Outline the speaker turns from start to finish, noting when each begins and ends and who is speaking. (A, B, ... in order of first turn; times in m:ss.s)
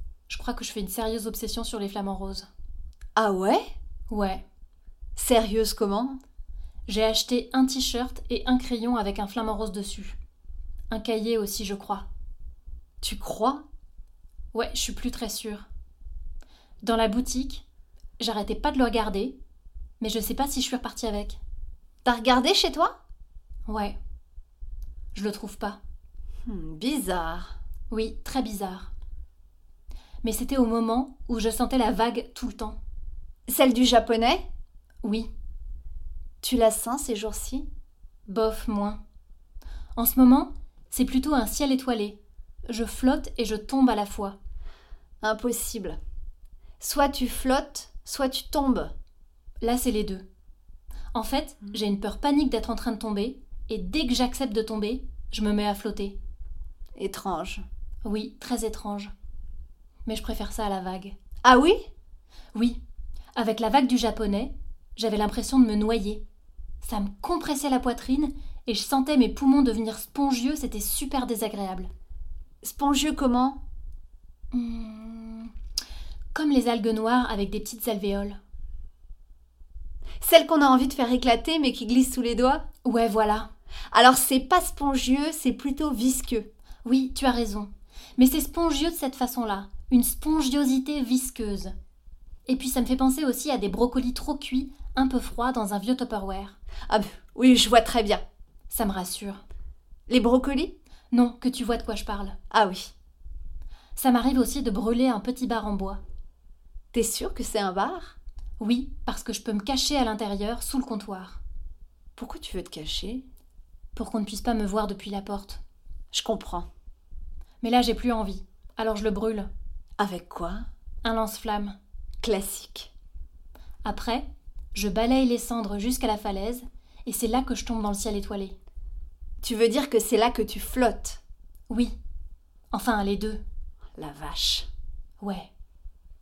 0:00.3-0:02.5 A
0:03.2-0:03.6 B
0:04.1-0:04.4 A
0:05.2-0:06.2 B
0:06.9-0:10.2 A
0:10.9-0:12.0 A
0:13.0-0:13.6 B
0:14.5-0:15.6 A
0:16.8-0:17.6 A
0:18.2-0:19.4 A
0:20.0-0:21.4 A
0:22.0-0:22.9 B
0:23.6-0:24.0 A
0:25.1-0:25.8 A
0:26.4-0:27.5 B
0:27.9-0:28.9 A
0:30.2-0:32.8 A
0:33.5-0:34.4 B
0:35.0-0:35.3 A
0:36.4-0:37.7 B
0:38.3-0:39.0 A
0:40.0-0:42.2 A
0:42.7-0:44.4 A
0:45.2-0:46.0 B
0:46.8-0:48.9 B
0:49.6-0:50.2 A
0:51.1-0:56.2 A
0:57.0-0:57.6 B
0:58.0-0:59.1 A
1:00.0-1:01.1 A
1:01.4-1:01.8 B
1:03.4-1:06.2 A
1:06.8-1:11.9 A
1:12.6-1:13.6 B
1:14.5-1:15.5 A
1:16.3-1:18.4 A
1:20.2-1:22.6 B
1:22.8-1:23.5 A
1:23.9-1:26.5 B
1:26.8-1:31.7 A
1:32.4-1:36.6 A
1:36.9-1:38.2 B
1:38.7-1:39.4 A
1:40.1-1:40.7 B
1:41.1-1:42.4 A
1:42.5-1:42.9 B
1:44.0-1:46.0 A
1:46.9-1:48.2 B
1:48.6-1:51.4 A
1:52.2-1:53.2 B
1:53.9-1:55.6 A
1:56.1-1:56.7 B
1:57.6-1:59.5 A
2:00.0-2:00.6 B
2:01.0-2:01.7 A
2:02.2-2:02.9 B
2:03.8-2:08.6 A
2:09.4-2:11.2 B
2:12.7-2:13.4 A
2:14.0-2:14.7 B
2:15.2-2:15.5 A